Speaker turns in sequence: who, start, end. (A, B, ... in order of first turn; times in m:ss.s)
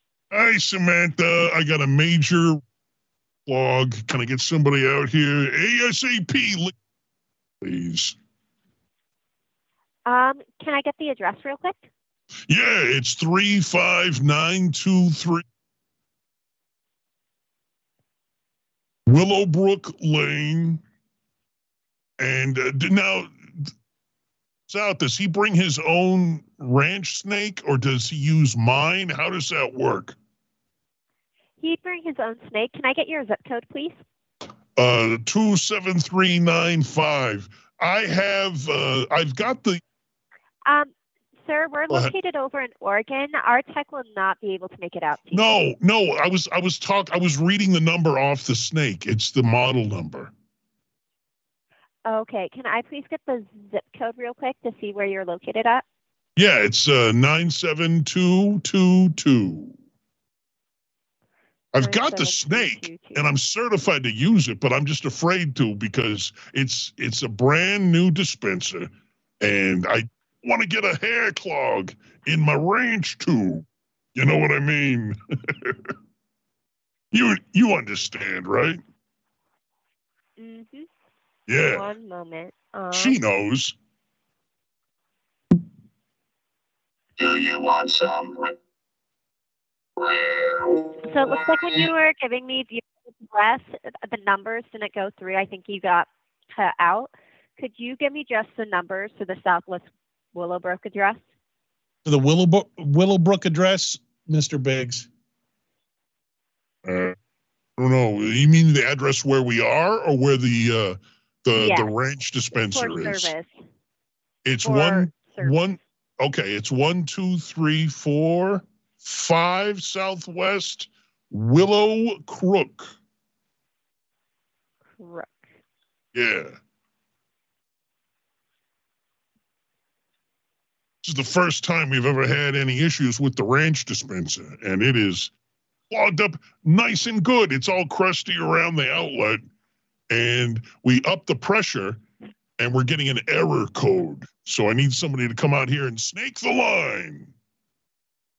0:00.3-0:02.6 A
0:03.5-0:06.7 A
0:07.6-0:08.2 A
0:10.0-0:11.9 B
0:12.5-0:15.4 A
0:19.1-0:20.8 A
0:22.2-0:23.7 A
0:24.7-0:30.2 A
0:31.6-0:34.0 B
0:34.8-0:39.8 A
0:40.6-0:45.4 B
0:45.3-0:50.3 A
0:52.0-0:55.8 B
0:56.4-0:59.8 A
1:01.7-1:13.6 A
1:01.8-1:03.3 B
1:14.2-1:15.2 A
1:17.1-1:18.8 A
1:20.4-1:20.9 B
1:21.5-1:21.9 A
1:21.6-1:23.2 B
1:22.9-1:23.7 A
1:27.2-1:28.5 C
1:30.0-1:31.9 C
1:31.0-1:41.2 B
1:42.0-1:45.1 D
1:46.8-1:47.1 A
1:47.8-1:53.3 A
1:51.6-1:52.0 B
1:52.5-1:53.6 B
1:54.4-2:02.9 A
1:54.6-1:55.6 B
2:05.0-2:05.5 B
2:06.1-2:06.6 A
2:11.0-2:15.3 A
2:15.9-2:19.4 A
2:20.1-2:22.0 A
2:22.6-2:27.3 A